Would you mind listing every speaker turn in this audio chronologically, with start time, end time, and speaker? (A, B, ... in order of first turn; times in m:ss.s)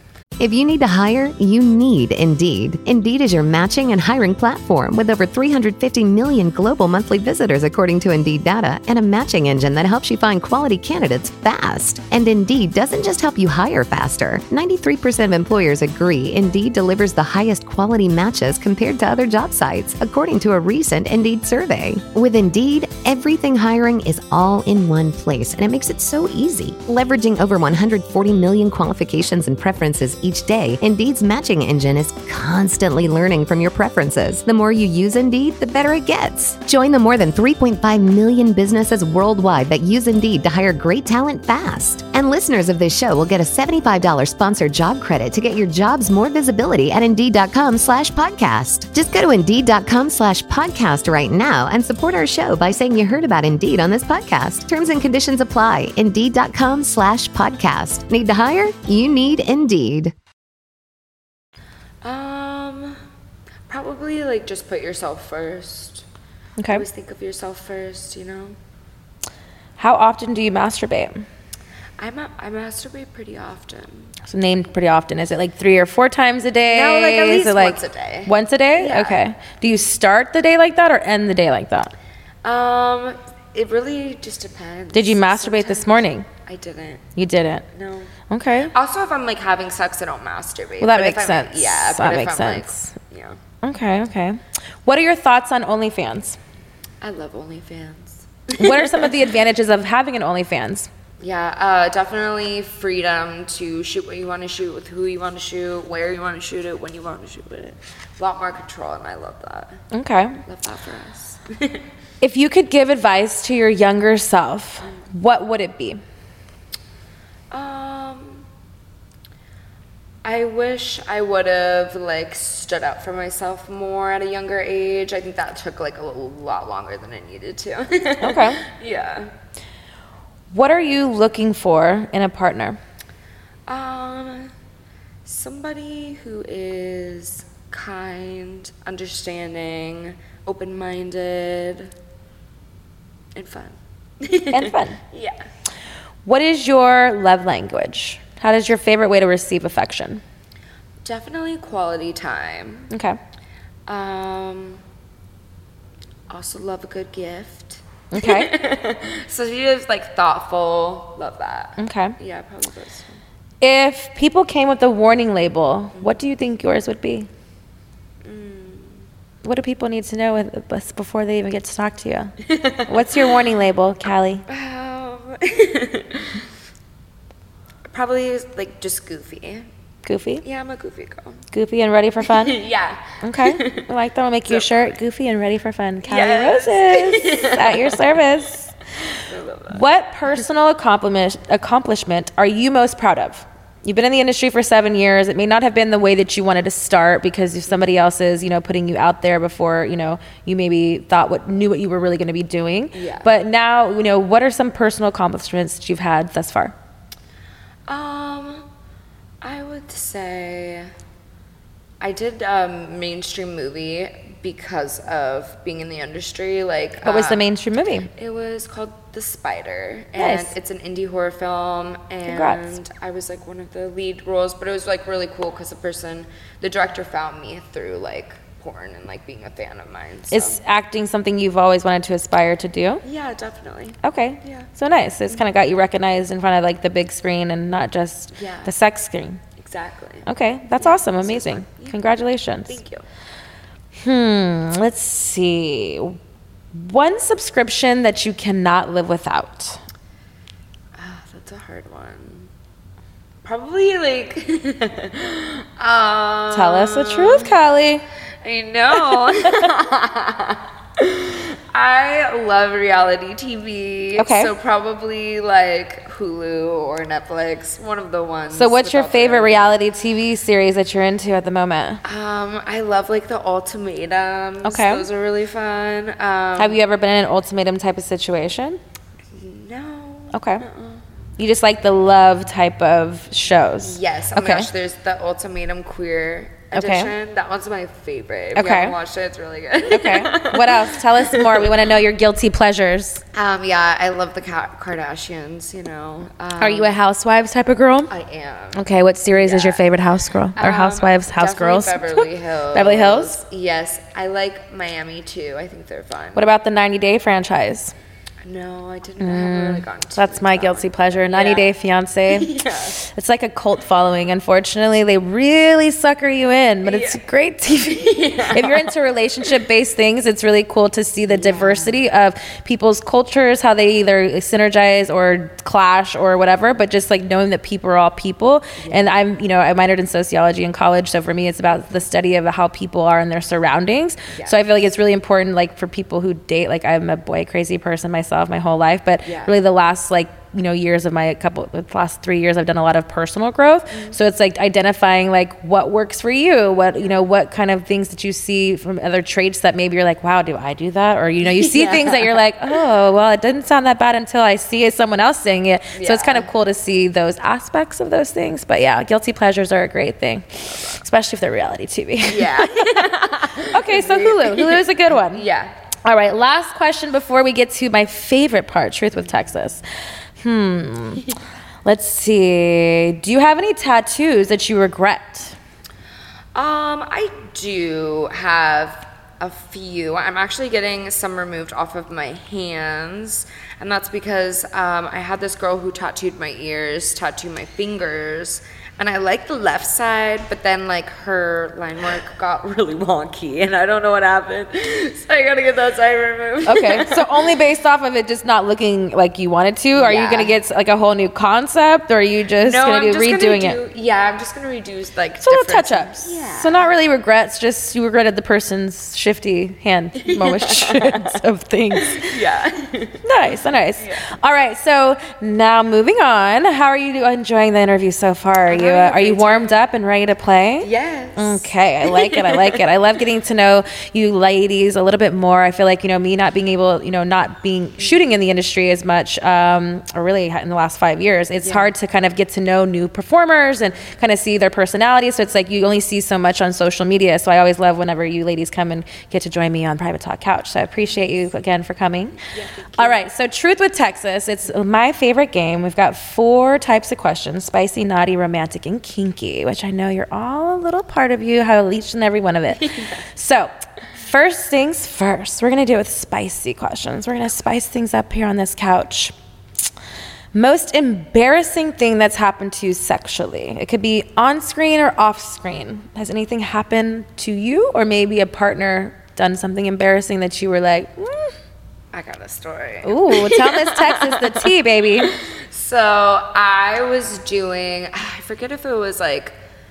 0:00.4-1:00.1 A
1:02.0-1:03.0 B
1:03.7-1:06.0 B
1:06.6-1:06.8 C
1:06.7-1:08.6 B
1:09.8-1:11.2 C
1:12.0-1:14.1 B
1:14.2-1:21.9 C
1:16.7-1:19.2 B
1:22.4-1:27.1 B
1:24.9-1:26.3 C
1:27.2-1:27.7 C
1:27.7-1:28.1 B
1:28.3-1:28.7 C
1:28.7-1:33.4 B
1:30.8-1:32.9 C
1:33.6-1:36.4 C
1:37.0-1:39.1 B
1:38.6-1:40.9 C
1:41.2-1:49.8 B
1:49.9-1:50.4 C
1:50.4-1:51.8 B
1:52.2-1:56.0 C
1:57.5-1:58.4 B
2:00.2-2:09.3 B
2:08.2-2:08.6 C
2:10.5-2:12.8 C
2:13.7-2:14.5 B
2:15.2-2:21.9 B
2:23.3-2:25.4 B
2:24.5-2:25.0 C
2:26.2-2:30.2 C
2:31.0-2:32.9 B
2:32.9-2:33.2 C
2:33.9-2:34.8 B
2:36.3-2:43.2 B
2:38.1-2:38.5 C
2:41.8-2:42.2 C
2:43.6-2:47.3 C
2:48.2-2:49.0 B
2:49.4-2:54.4 C
2:52.4-2:53.2 B
2:54.5-2:56.4 B
2:57.9-2:59.7 B
3:00.0-3:00.4 C
3:00.4-3:01.4 B
3:01.5-3:02.6 C
3:02.2-3:03.9 B
3:03.2-3:08.7 C
3:04.5-3:05.0 B
3:06.0-3:08.1 B
3:09.1-3:09.8 B
3:09.7-3:26.7 C
3:22.9-3:23.3 B
3:27.9-3:28.7 B
3:29.4-3:30.9 B
3:32.0-3:37.4 B
3:37.0-3:38.1 C
3:38.1-3:50.6 B
3:40.2-3:40.5 C
3:42.3-3:42.7 C
3:50.3-3:53.0 C
3:53.0-3:54.7 B
3:54.0-3:59.4 C
3:58.3-3:58.7 B
3:59.6-4:02.0 B
4:00.3-4:02.8 C
4:02.6-4:03.0 B
4:04.0-4:06.2 C
4:06.7-4:09.8 C
4:11.0-4:12.5 B
4:13.4-4:17.6 B
4:16.5-4:18.0 C
4:18.4-4:29.7 B
4:18.9-4:19.7 C
4:24.2-4:24.5 C
4:28.5-4:32.0 C
4:32.0-4:36.8 B
4:34.6-4:35.0 C
4:36.6-4:38.8 C
4:39.3-4:41.0 B
4:40.3-4:40.6 C
4:41.4-4:44.7 C
4:43.8-4:51.8 B
4:46.7-4:47.1 C
4:48.5-4:49.0 C
4:49.9-4:53.2 C
4:53.3-4:56.9 B
4:56.6-4:58.1 C
4:58.1-4:59.9 B
4:58.7-5:03.4 C
5:00.6-5:06.5 B
5:06.3-5:08.0 C
5:08.4-5:11.7 B
5:09.2-6:05.5 C
5:12.3-5:13.0 B
5:16.8-5:17.2 B
5:17.9-5:18.9 B
5:21.3-5:22.0 B
5:28.8-5:29.1 B
5:34.3-5:34.7 B
5:39.2-5:39.6 B
5:43.9-5:44.2 B
5:51.4-5:52.4 B
5:55.9-5:56.5 B
6:00.6-6:01.0 B
6:02.3-6:05.7 B
6:06.0-6:09.8 C
6:10.4-6:11.2 C
6:11.8-6:15.6 C
6:16.6-6:37.5 B
6:36.7-6:43.8 C
6:39.9-6:40.6 B
6:42.6-6:47.0 B
6:45.4-6:52.3 C
6:50.2-6:51.4 B
6:51.9-6:53.2 B
6:53.2-7:22.4 C
6:54.0-6:54.3 B
6:58.7-6:59.8 B
7:00.8-7:02.8 B
7:11.6-7:11.9 B
7:22.4-7:23.2 B
7:23.0-7:39.3 C
7:32.7-7:33.2 B
7:40.5-7:51.5 C
7:52.1-7:59.6 B
7:53.0-7:55.3 C